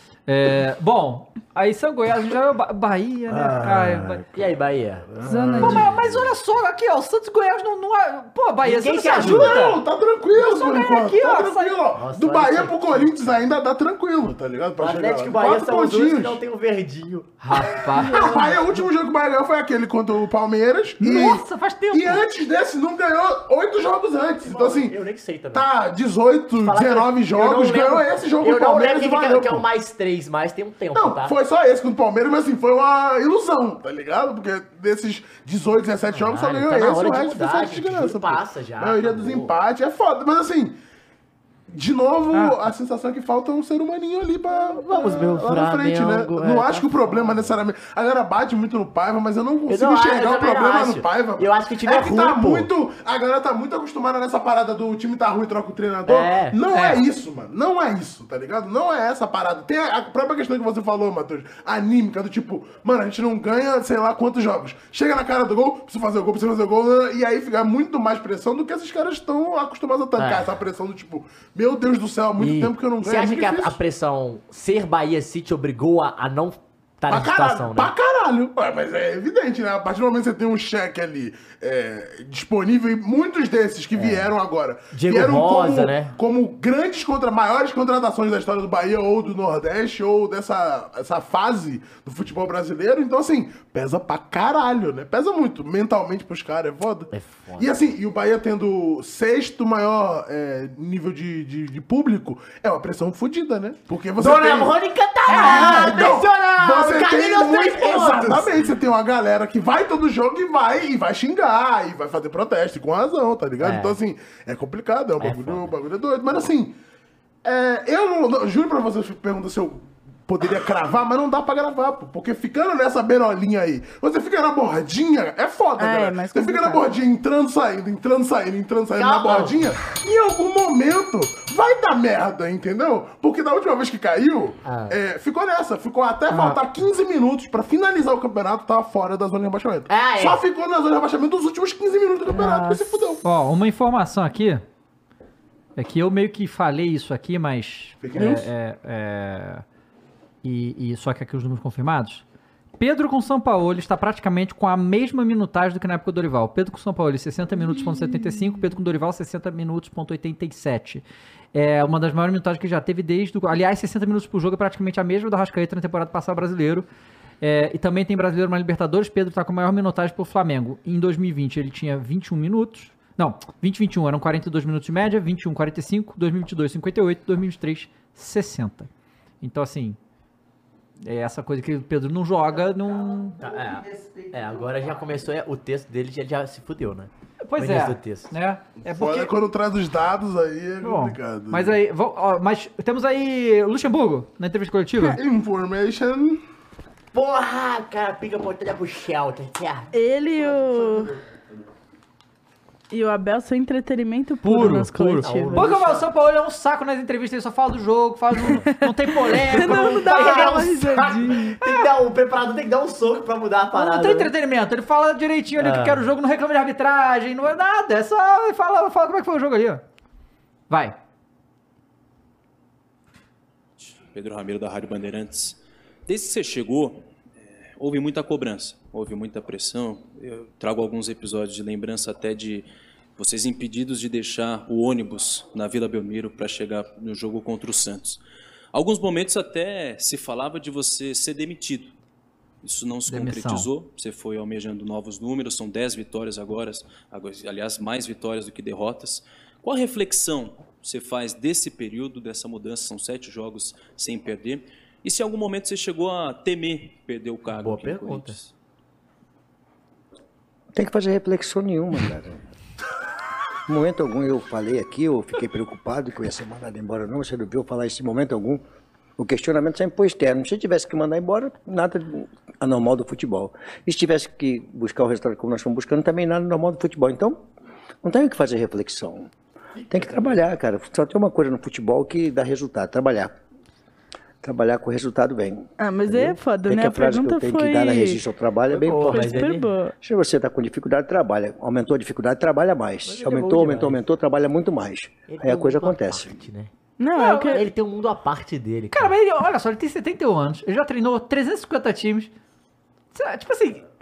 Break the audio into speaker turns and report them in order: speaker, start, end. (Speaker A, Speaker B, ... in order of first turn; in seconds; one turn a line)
Speaker A: 0.3-4.2
Speaker B: 3.3-4.6
Speaker C: 4.3-5.1
Speaker B: 5.1-6.3
Speaker D: 5.2-5.9
Speaker A: 5.6-9.8
Speaker C: 8.6-9.7
Speaker B: 9.1-16.4
Speaker A: 10.3-11.8
Speaker C: 12.0-13.4
Speaker C: 14.8-17.5
Speaker A: 17.4-18.4
Speaker B: 17.6-25.0
Speaker A: 21.0-22.2
Speaker C: 24.4-25.7
Speaker B: 25.5-29.6
Speaker C: 26.6-31.4
Speaker B: 30.9-40.8
Speaker C: 36.1-39.5
Speaker B: 41.7-73.8
Speaker C: 44.8-47.6
Speaker C: 49.7-52.7
Speaker C: 56.1-56.6
Speaker A: 56.7-57.0
Speaker C: 70.2-70.5
Speaker C: 72.4-77.9
Speaker B: 77.1-116.7
Speaker C: 83.9-84.3
Speaker C: 84.9-86.1
Speaker C: 97.1-97.7
Speaker C: 104.2-108.7
Speaker C: 113.6-114.0
Speaker C: 115.2-115.7
Speaker B: 117.4-143.2
Speaker D: 125.8-126.8
Speaker C: 128.9-129.8
Speaker C: 134.6-135.0
Speaker C: 139.9-140.4
Speaker D: 142.3-143.0
Speaker A: 143.2-144.6
Speaker A: 145.8-149.6
Speaker B: 148.0-148.5
Speaker A: 150.4-152.2
Speaker A: 152.8-166.8
Speaker A: 167.4-178.9
Speaker A: 179.4-180.0
Speaker A: 181.0-183.4
Speaker C: 183.4-188.3
Speaker A: 187.4-189.3
Speaker B: 188.8-191.8
Speaker A: 190.8-195.2
Speaker B: 195.1-196.4
Speaker C: 197.1-199.9
Speaker D: 199.9-201.1
Speaker D: 202.9-205.7
Speaker A: 204.4-210.0
Speaker C: 205.2-206.1
Speaker D: 209.2-211.6
Speaker C: 209.3-214.3
Speaker A: 211.6-211.9
Speaker A: 213.7-219.8
Speaker C: 215.6-216.1
Speaker A: 220.7-220.9
Speaker E: 223.8-238.2
Speaker E: 238.7-241.9
Speaker E: 242.6-258.5
Speaker A: 243.1-243.7
Speaker C: 257.5-258.4
Speaker F: 260.7-262.4
Speaker F: 263.7-268.6
Speaker F: 269.2-277.5
Speaker F: 278.0-279.3
Speaker F: 279.9-283.4
Speaker F: 284.4-289.5
Speaker D: 285.8-288.2
Speaker C: 288.7-289.7
Speaker D: 288.9-289.9
Speaker F: 290.0-296.4
Speaker C: 293.1-294.0
Speaker C: 295.3-296.7
Speaker D: 297.0-297.6
Speaker A: 297.1-297.6
Speaker C: 297.5-299.1
Speaker A: 298.9-302.3
Speaker A: 303.1-303.8